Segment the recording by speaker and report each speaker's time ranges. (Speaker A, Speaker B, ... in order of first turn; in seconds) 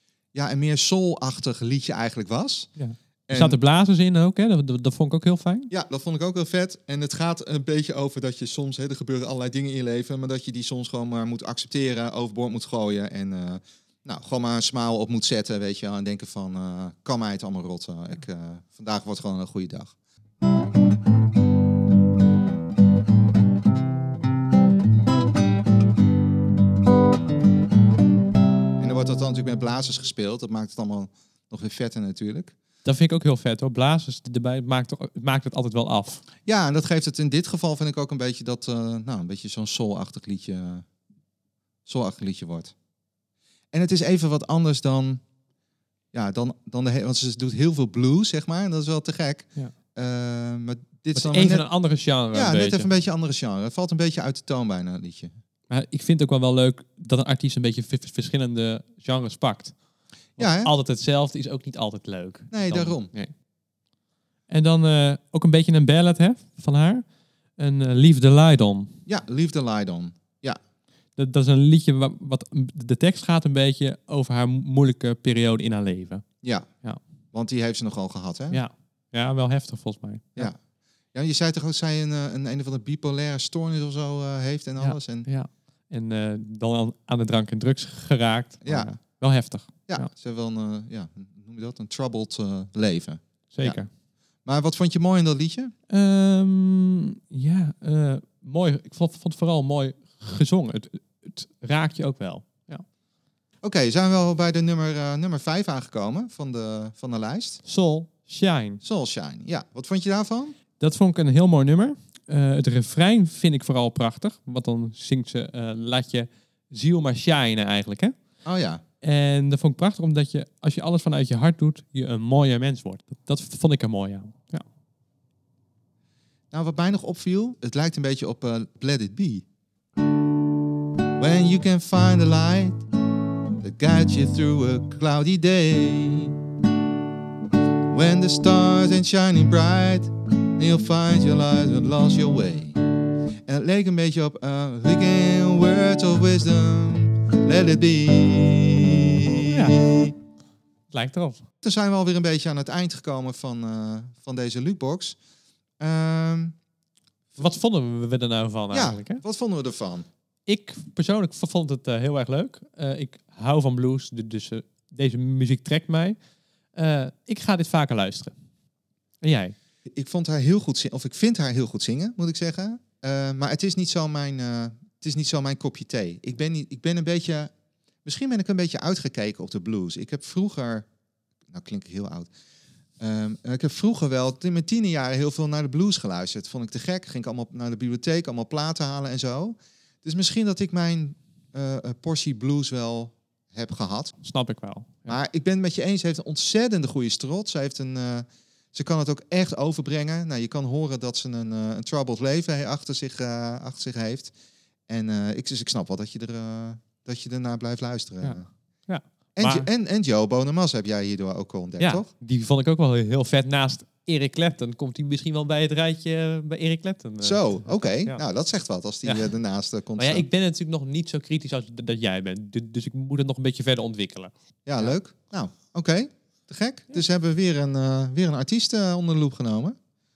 Speaker A: 0.3-2.7, 3.3-3.6, 5.7-19.9, 28.8-32.5, 36.5-40.9, 41.9-42.7, 43.7-45.2, 46.1-51.6, 52.3-55.3, 60.4-60.7, 62.5-63.1, 69.0-70.6, 77.3-78.6, 81.1-85.3, 88.6-88.9, 89.9-93.8, 94.4-95.7, 103.6-107.6, 108.8-110.5, 118.4-118.8, 126.5-129.4, 131.2-132.8, 133.6-136.3, 137.9-142.8, 143.5-150.1, 151.6-155.2, 155.8-156.5, 158.7-160.1, 169.9-177.5, 178.0-180.8, 181.5-182.3, 183.0-194.1, 195.1-204.3, 204.9-208.4, 209.4-212.1, 217.2-220.2, 224.7-229.8
Speaker B: 2.8-5.7, 32.8-36.2, 51.1-52.9, 55.7-59.8, 60.4-63.3, 64.5-67.0, 67.6-69.0, 71.2-76.2, 78.5-80.5, 84.8-90.1, 93.5-93.9, 95.9-102.8, 107.6-108.8, 110.8-118.1, 119.0-124.6, 149.4-149.8, 150.9-151.4, 157.4-159.2, 160.4-166.2, 166.7-168.3, 169.2-169.5, 194.2-195.2, 208.2-209.7, 211.8-218.2, 219.0-219.3, 219.9-224.9